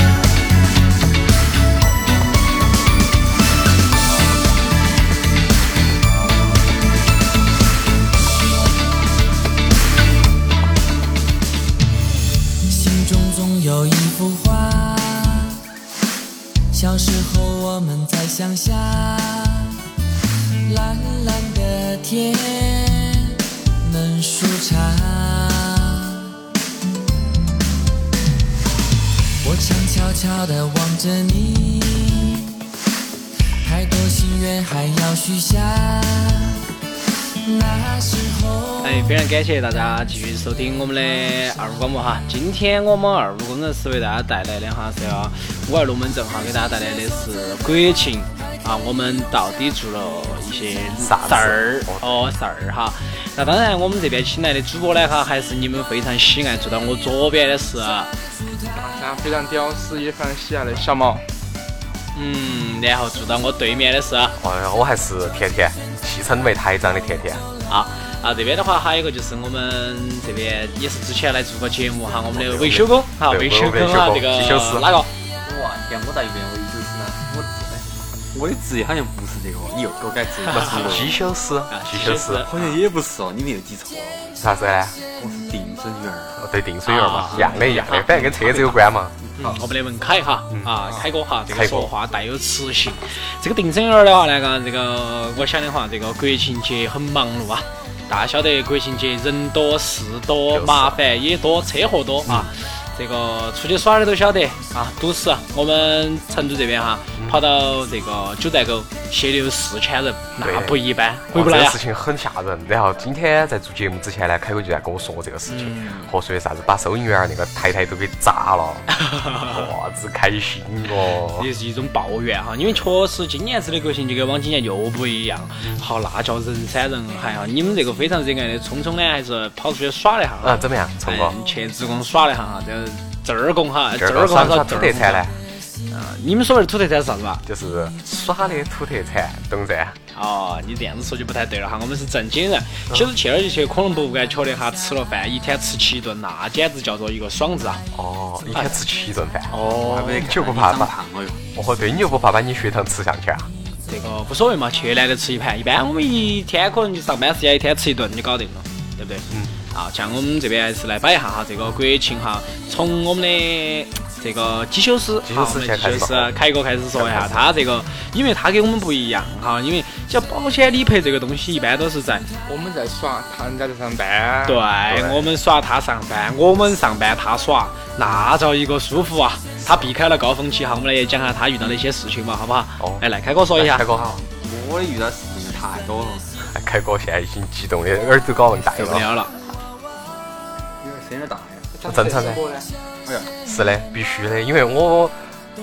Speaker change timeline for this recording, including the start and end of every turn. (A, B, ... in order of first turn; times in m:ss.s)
0:12.7-0:15.6 A
0:16.7-0:19.8 A
0:20.7-0:26.3 A
0:29.4-0:32.5 A
0:33.6-0:36.6 A
0:37.4-0:39.1 A
0:38.8-0:58.1 B
0:51.0-0:52.2 C
0:58.7-1:01.2 D
1:02.2-1:04.4 B
1:04.4-1:07.5 C
1:07.7-1:15.1 B
1:12.2-1:14.9 C
1:15.4-1:21.2 E
1:20.5-1:22.5 C
1:21.7-1:22.8 B
1:22.5-1:24.4 E
1:24.4-1:25.0 C
1:25.2-1:26.4 E
1:26.4-1:29.2 C
1:26.9-1:28.8 B
1:29.4-1:51.8 B
1:31.5-1:31.9 C
1:40.5-1:41.0 C
1:42.3-1:42.5 C
1:47.2-1:47.4 C
1:50.4-2:01.5 C
1:55.5-1:56.1 B
1:58.9-1:59.7 B
2:01.3-2:15.2 B
2:10.4-2:11.4 C
2:14.0-2:15.4 C
2:15.9-2:17.4 B
2:17.4-2:20.0 C
2:20.1-2:27.8 B
2:27.9-2:30.9 C
2:28.5-2:28.8 B
2:29.5-2:30.2 B
2:29.6-2:31.4 E
2:31.6-2:33.5 C
2:33.9-2:52.3 B
2:45.2-2:46.4 C
2:46.9-2:47.5 C
2:52.5-2:54.6 D
2:54.4-3:03.8 B
2:54.9-2:55.3 C
2:58.0-2:58.3 C
3:03.6-3:04.2 C
3:03.9-3:06.4 E
3:06.4-3:09.1 C
3:08.6-3:09.4 B
3:10.8-3:11.8 E
3:11.8-3:12.7 D
3:11.9-3:12.4 C
3:13.1-3:13.3 E
3:13.4-3:15.2 C